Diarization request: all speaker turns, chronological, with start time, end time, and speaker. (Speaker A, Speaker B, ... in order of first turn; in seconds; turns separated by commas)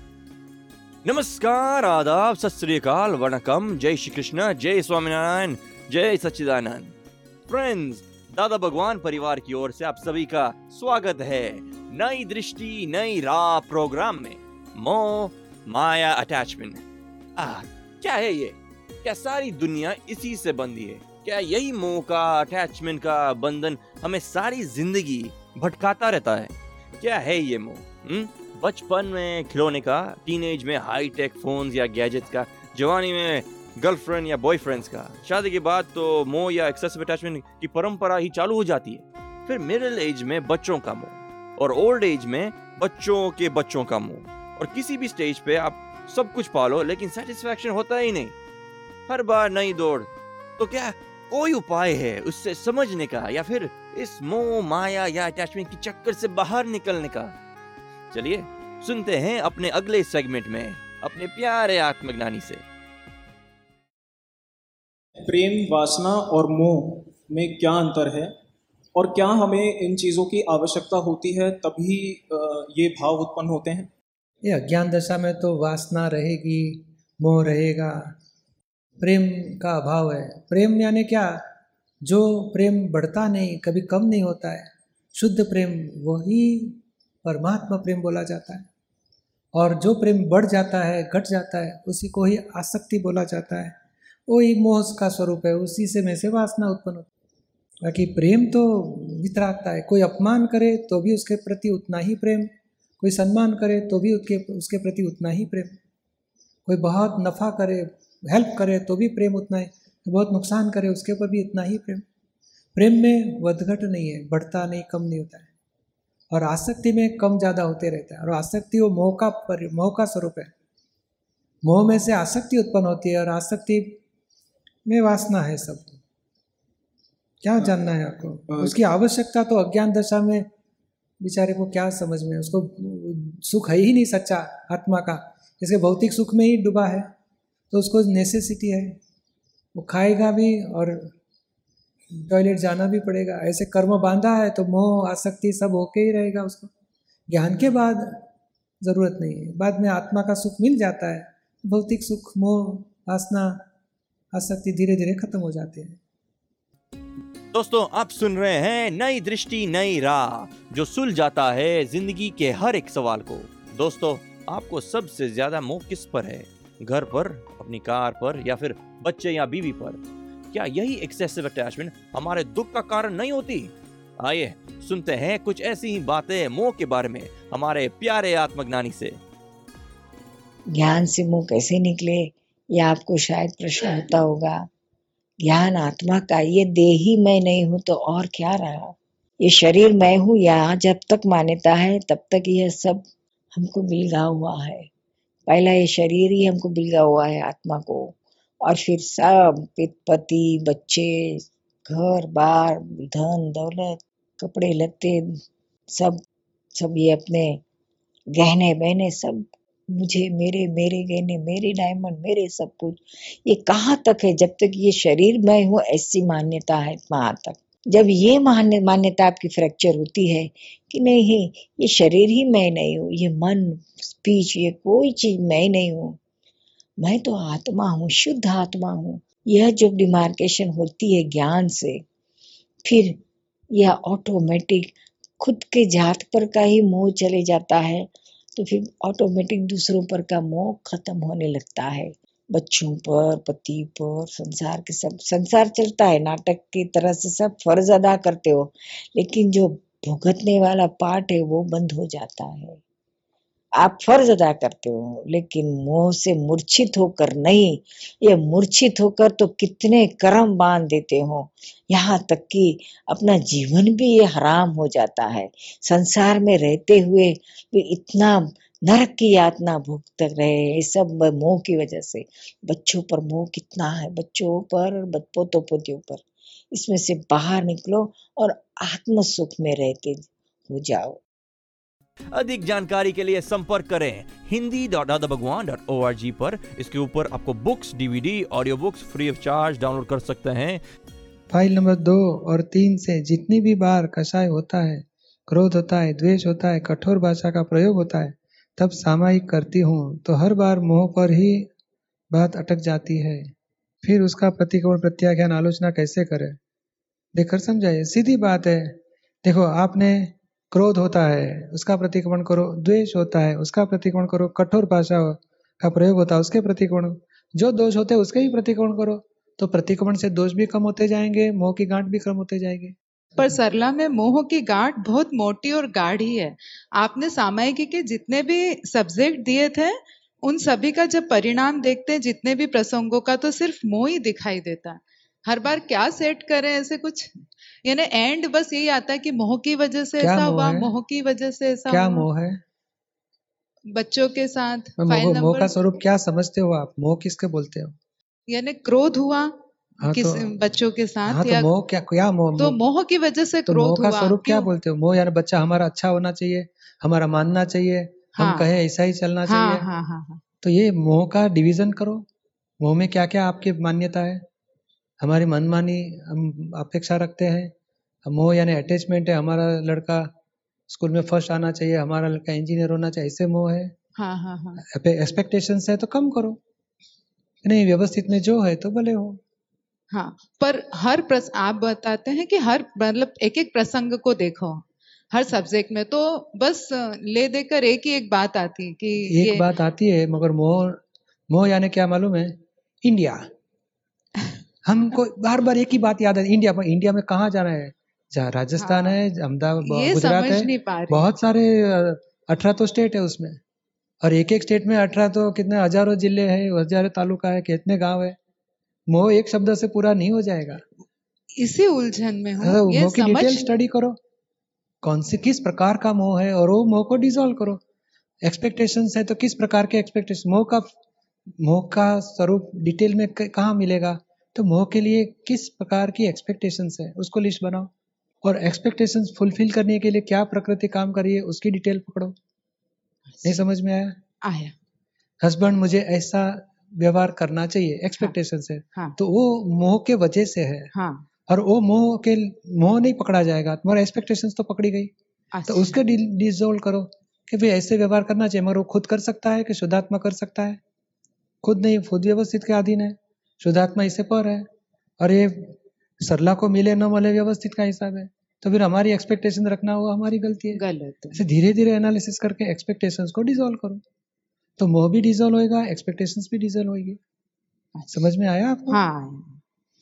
Speaker A: 1.0-6.9, Speaker A: 7.5-16.8, Speaker A: 17.4-48.4, Speaker A: 49.1-57.4, Speaker A: 58.1-62.6, Speaker B: 65.2-68.3, Speaker B: 69.0-73.9, Speaker C: 74.4-78.0, Speaker C: 79.0-81.3, Speaker C: 82.0-88.7, Speaker C: 89.5-93.7, Speaker C: 94.3-97.1, Speaker C: 97.8-102.5, Speaker C: 103.0-105.8, Speaker C: 106.7-112.0, Speaker C: 112.8-115.5, Speaker C: 116.3-120.5, Speaker C: 121.6-124.0, Speaker C: 124.9-126.0, Speaker C: 127.4-130.4, Speaker C: 131.2-137.0, Speaker C: 137.7-139.0, Speaker C: 139.8-141.1, Speaker C: 142.2-146.7, Speaker C: 147.3-148.2, Speaker C: 148.8-153.6, Speaker C: 154.3-156.0, Speaker A: 157.5-170.0, Speaker A: 170.5-179.2, Speaker D: 180.7-184.7, Speaker D: 185.4-194.9, Speaker D: 195.5-206.2, Speaker D: 206.8-207.6, Speaker D: 208.3-226.2, Speaker D: 227.0-232.0, Speaker D: 232.8-252.8, Speaker D: 253.7-281.2, Speaker A: 282.3-290.8, Speaker C: 291.5-301.7, Speaker C: 302.3-303.4, Speaker C: 304.0-306.6, Speaker C: 307.4-322.9, Speaker E: 323.4-342.3, Speaker C: 340.2-340.9, Speaker C: 341.9-342.6, Speaker E: 343.9-345.7, Speaker C: 345.0-347.9, Speaker E: 348.5-351.7, Speaker C: 350.0-350.6, Speaker C: 351.3-352.8, Speaker E: 352.6-354.7, Speaker C: 353.7-359.9, Speaker E: 358.4-358.7, Speaker E: 359.4-360.4, Speaker C: 360.6-362.3, Speaker C: 362.8-364.4, Speaker C: 365.2-367.7, Speaker C: 368.3-370.3, Speaker C: 370.9-373.9, Speaker E: 374.2-374.8, Speaker C: 374.8-376.6, Speaker C: 377.6-379.4, Speaker E: 380.1-389.7, Speaker C: 389.3-391.0, Speaker C: 391.5-393.4, Speaker C: 394.9-403.6, Speaker E: 398.8-399.2, Speaker E: 399.8-401.3, Speaker C: 404.2-408.4, Speaker C: 409.1-410.8, Speaker E: 411.5-413.7, Speaker C: 412.6-414.2, Speaker C: 415.0-417.8, Speaker C: 418.4-420.9, Speaker C: 421.6-427.9, Speaker C: 428.4-432.3, Speaker E: 433.3-433.6, Speaker C: 433.4-434.2, Speaker E: 434.4-434.8, Speaker C: 435.4-440.9, Speaker E: 440.9-441.3, Speaker C: 441.5-445.1, Speaker E: 445.5-446.0, Speaker C: 445.7-450.8, Speaker C: 451.6-454.6, Speaker C: 455.2-460.8, Speaker E: 460.7-461.4, Speaker C: 461.3-464.0, Speaker C: 464.8-467.2, Speaker E: 467.9-468.3, Speaker C: 468.1-469.0, Speaker E: 468.9-469.6